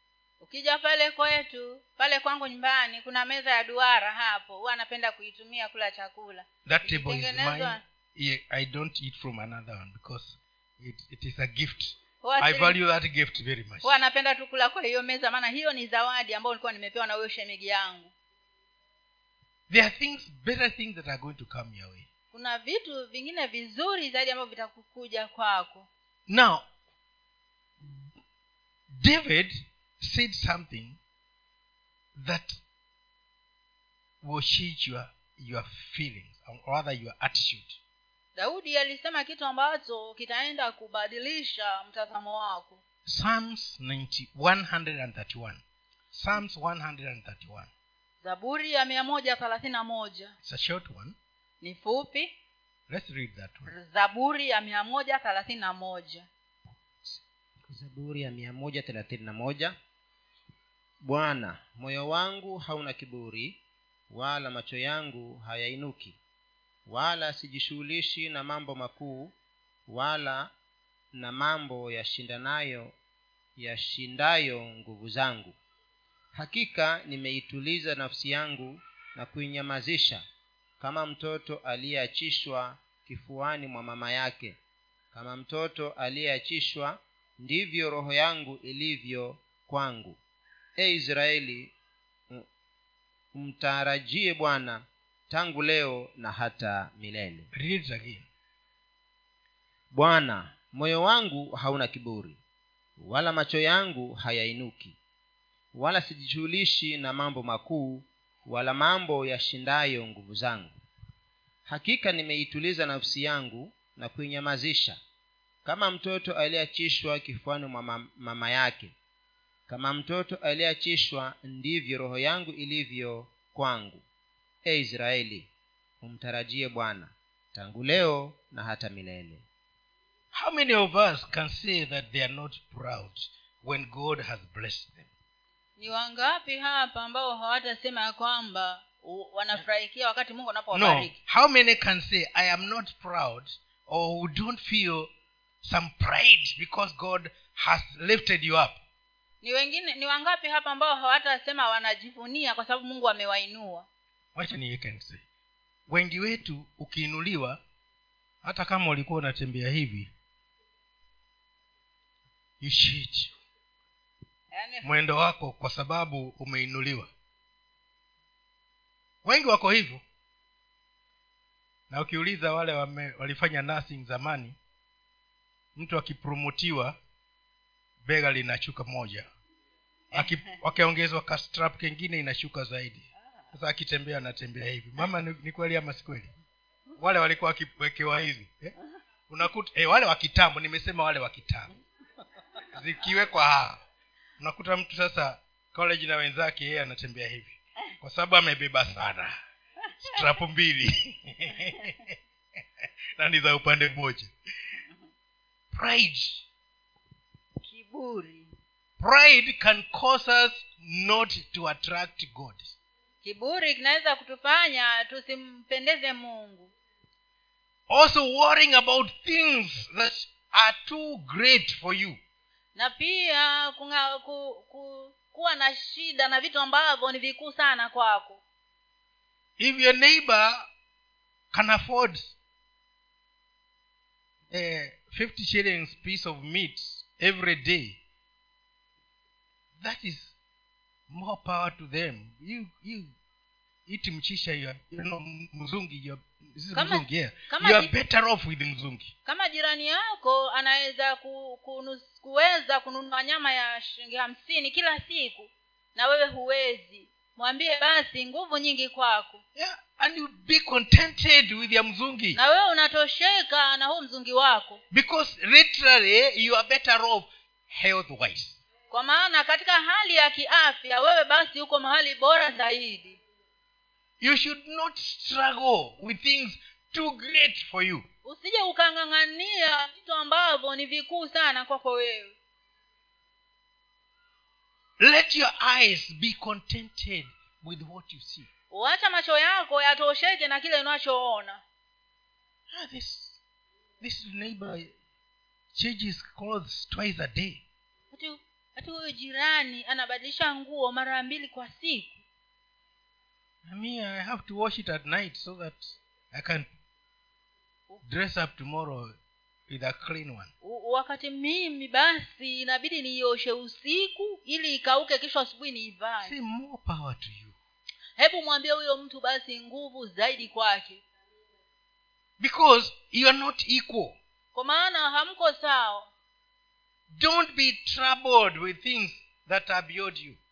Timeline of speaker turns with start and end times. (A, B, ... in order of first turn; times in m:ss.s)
0:00.4-0:07.8 A
0:06.6-0:14.0 B
0:12.2-0:12.8 A
0:13.8-0:18.1 A
0:19.7-0:22.1 B
0:22.3-0:25.9 A
0:26.3-0:26.6 B
0:28.9-0:31.0 B
0:32.2-0:32.6 B
0:34.2-0:37.8 B
0:38.4-0:42.8 A
0:43.0-0:47.7 B
0:48.2-0:50.4 A
0:50.4-0:51.2 B
0:51.6-0:52.3 A
0:52.9-0:53.7 B
0:53.7-0:56.3 A
0:57.0-0:59.8 C
1:01.0-1:03.6 C
1:04.1-1:06.2 C
1:06.9-1:09.3 C
1:09.9-1:10.5 C
1:11.2-1:13.0 C
1:13.6-1:15.6 C
1:16.3-1:20.2 C
1:20.8-1:24.6 C
1:25.1-1:30.2 C
1:30.8-1:31.7 C
1:33.3-1:37.5 C
1:37.5-1:38.3 B
1:39.9-1:42.4 C
1:43.0-1:45.0 C
1:45.7-1:50.8 C
1:51.7-1:55.0 C
1:55.6-1:59.0 C
1:59.7-2:04.0 C
2:04.6-2:09.5 C
2:10.3-2:15.1 B
2:15.8-2:21.1 A
2:20.7-2:25.1 B
2:25.6-2:28.8 B
2:29.4-2:33.9 A
2:34.4-2:35.2 B
2:35.9-2:37.6 B
2:38.4-2:40.1 B
2:42.6-2:43.3 B
2:44.5-2:44.9 A
2:44.8-2:47.1 B
2:49.2-2:50.0 B
2:51.9-2:54.6 B
2:55.8-2:57.0 B
2:58.0-2:59.3 B
3:00.1-3:06.3 B
3:07.0-3:08.8 B
3:09.3-3:11.7 B
3:12.7-3:13.8 B
3:14.4-3:19.4 B
3:20.0-3:22.2 B
3:23.2-3:24.3 B
3:25.7-3:26.4 B
3:27.6-3:28.5 A
3:29.0-3:32.8 B
3:33.2-3:36.7 A
3:37.9-3:42.2 B
3:42.8-3:48.4 A
3:49.6-3:50.7 B
3:51.5-3:52.4 B
3:54.5-3:58.0 B
3:59.8-4:00.3 B
4:01.1-4:03.1 B
4:03.9-4:09.1 B
4:06.8-4:07.9 A
4:09.3-4:19.4 A
4:19.6-4:22.4 B
4:22.3-4:24.8 A
4:24.9-4:28.6 B
4:28.9-4:33.2 A
4:34.2-4:38.1 B
4:38.2-4:42.4 A
4:45.0-4:48.5 B
4:48.7-4:51.6 A
4:52.7-4:53.4 B
4:54.0-4:54.9 B
4:55.7-4:57.6 B
4:58.1-5:02.2 A
5:03.6-5:06.7 B
5:08.0-5:09.2 B
5:09.7-5:10.5 B
5:10.6-5:16.3 A
5:16.2-5:17.6 B
5:18.2-5:21.0 A
5:22.4-5:24.2 B
5:24.5-5:26.1 A
5:27.1-5:30.4 B